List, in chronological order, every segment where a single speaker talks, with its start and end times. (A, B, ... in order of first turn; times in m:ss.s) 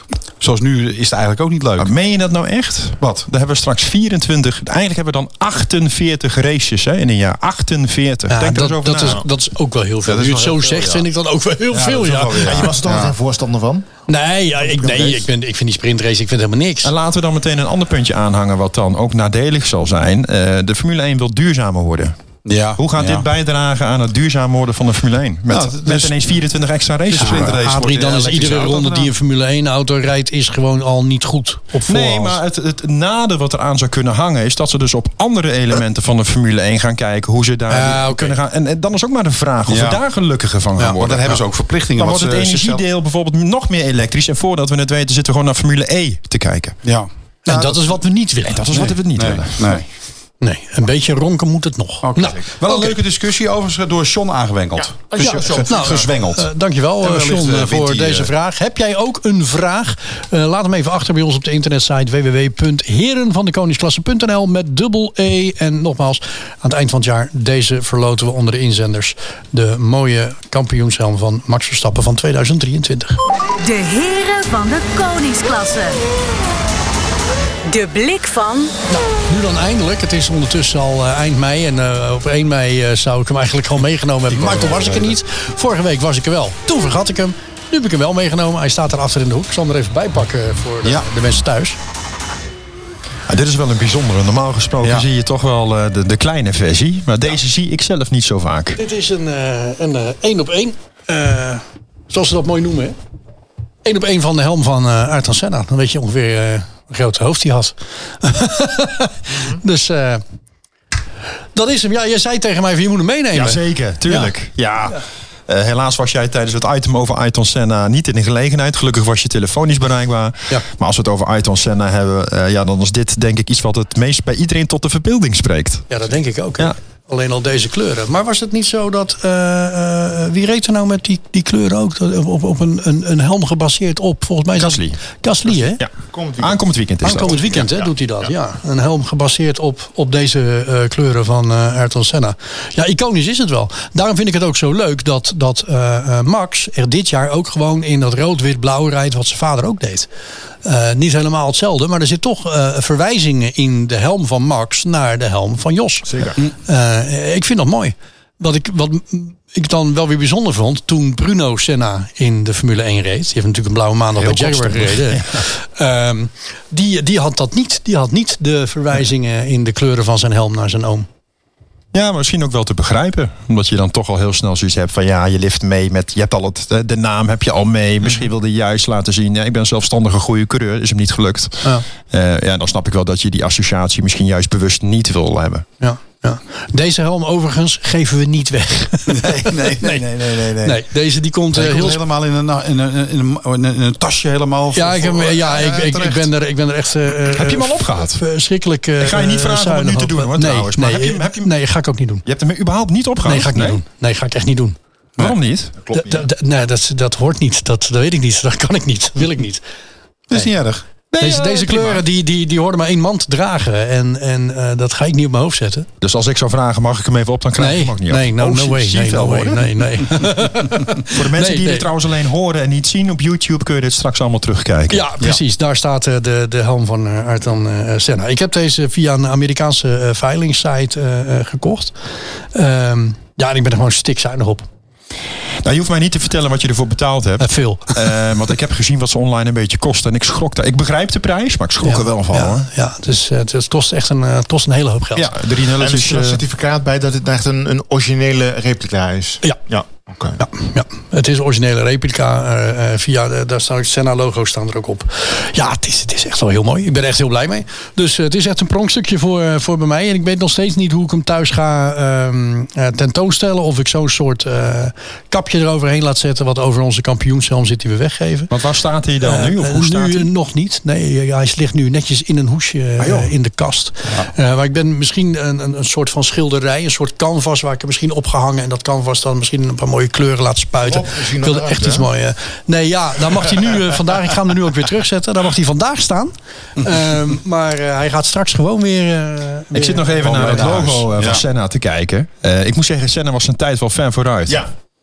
0:00.4-0:01.9 A
0:01.8-0:09.2 B
0:03.0-0:03.3 A
0:08.3-0:12.7 C
0:10.0-0:11.1 A
0:11.7-0:13.1 A
0:12.4-0:13.9 D
0:14.1-0:16.9 C
0:14.6-0:15.2 D
0:16.8-0:22.2 B
0:22.4-0:23.2 A
0:22.8-0:27.6 B
0:25.5-0:26.2 A
0:27.1-0:29.1 A
0:27.2-0:32.4 C
0:31.9-0:41.4 B
0:37.7-0:38.4 C
0:39.7-0:40.0 A
0:40.9-0:42.8 A
0:42.0-0:46.8 B
0:46.8-0:47.9 A
0:47.5-0:48.8 C
0:48.5-0:49.8 B
0:48.7-0:49.8 A
0:50.4-0:52.9 C
0:52.0-0:56.5 A
0:54.8-0:56.1 D
0:55.2-1:13.2 C
0:57.0-0:58.3 A
1:13.6-1:16.0 E
1:17.7-1:18.7 E
1:18.9-1:31.8 C
1:24.3-1:25.1 A
1:33.3-1:38.8 B
1:38.8-1:43.0 C
1:43.8-1:50.2 C
1:51.6-1:54.3 C
1:53.3-2:05.9 B
2:05.9-2:15.8 C
2:14.6-2:15.0 B
2:15.8-2:17.5 B
2:16.1-2:16.6 D
2:17.0-2:30.1 C
2:17.2-2:17.9 D
2:30.6-2:51.1 C
2:44.2-2:45.4 B
2:51.9-3:05.7 B
3:05.8-3:12.0 C
3:09.1-3:10.8 A
3:11.5-3:16.3 A
3:14.8-3:22.2 C
3:17.3-3:18.2 B
3:19.0-3:21.5 B
3:22.3-3:23.8 B
3:23.2-3:24.8 C
3:25.2-3:25.7 B
3:25.8-3:26.3 D
3:25.9-3:29.6 C
3:30.3-3:30.8 A
3:31.1-3:32.0 B
3:31.2-3:35.9 C
3:36.0-3:39.9 B
3:37.6-3:41.9 C
3:41.1-3:45.1 B
3:44.9-3:51.9 C
3:52.5-3:54.7 C
3:55.6-4:02.7 B
3:57.4-3:58.0 C
4:01.8-4:05.3 C
4:05.2-4:06.4 B
4:05.8-4:10.4 D
4:10.4-4:28.5 C
4:28.5-4:30.3 B
4:29.2-4:51.0 C
4:33.0-4:33.3 B
4:40.8-4:42.1 D
4:49.7-4:54.7 B
4:50.2-4:51.4 A